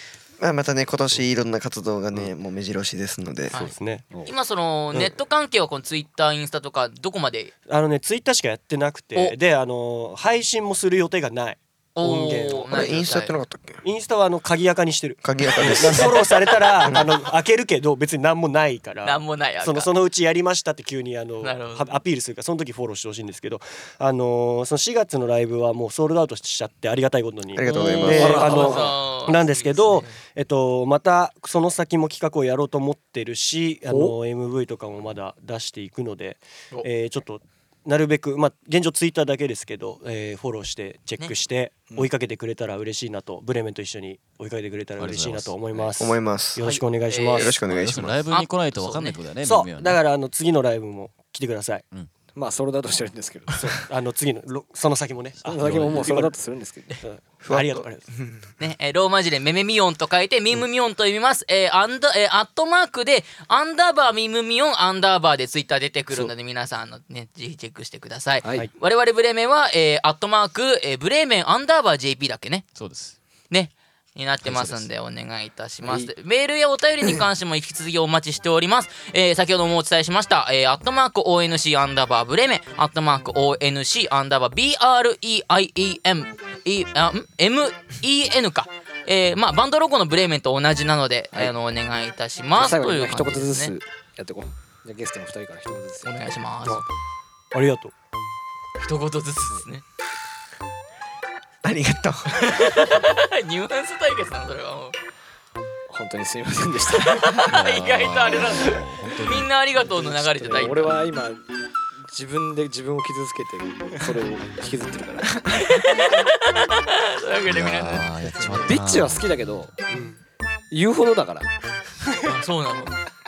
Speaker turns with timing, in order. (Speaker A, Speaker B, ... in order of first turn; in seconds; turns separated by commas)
Speaker A: 0.4-3.7, Speaker B: 3.5-4.0, Speaker C: 4.2-7.5, Speaker B: 7.7-12.7, Speaker C: 11.9-13.4, Speaker A: 12.7-13.8, Speaker B: 13.8-47.6, Speaker A: 15.2-16.3, Speaker A: 16.8-17.1, Speaker C: 19.0-19.9, Speaker C: 21.4-21.9, Speaker A: 27.5-28.8, Speaker C: 27.6-30.1, Speaker D: 28.0-28.9, Speaker D: 33.9-34.1, Speaker E: 45.0-45.9, Speaker A: 46.0-46.6, Speaker C: 46.6-47.5, Speaker A: 47.3-48.2, Speaker E: 47.6-50.0, Speaker C: 48.3-49.2, Speaker B: 49.4-51.8, Speaker D: 52.3-53.8, Speaker B: 53.6-56.3, Speaker E: 55.4-56.1, Speaker D: 55.4-57.0, Speaker B: 57.0-58.0, Speaker A: 57.4-58.4, Speaker C: 58.6-72.7, Speaker D: 68.4-68.7, Speaker E: 72.8-73.2, Speaker C: 73.5-93.7, Speaker D: 75.8-76.1, Speaker D: 92.5-96.2, Speaker C: 96.0-96.8, Speaker B: 97.5-97.9, Speaker C: 98.8-99.8, Speaker A: 101.6-102.5, Speaker C: 102.3-105.0, Speaker D: 105.9-107.5, Speaker C: 107.1-111.0, Speaker E: 107.5-109.5, Speaker D: 109.9-111.5, Speaker D: 112.0-115.3, Speaker C: 115.6-118.1, Speaker E: 117.5-119.3, Speaker D: 118.5-119.7, Speaker B: 119.9-120.2, Speaker D: 120.7-121.5, Speaker C: 122.2-122.9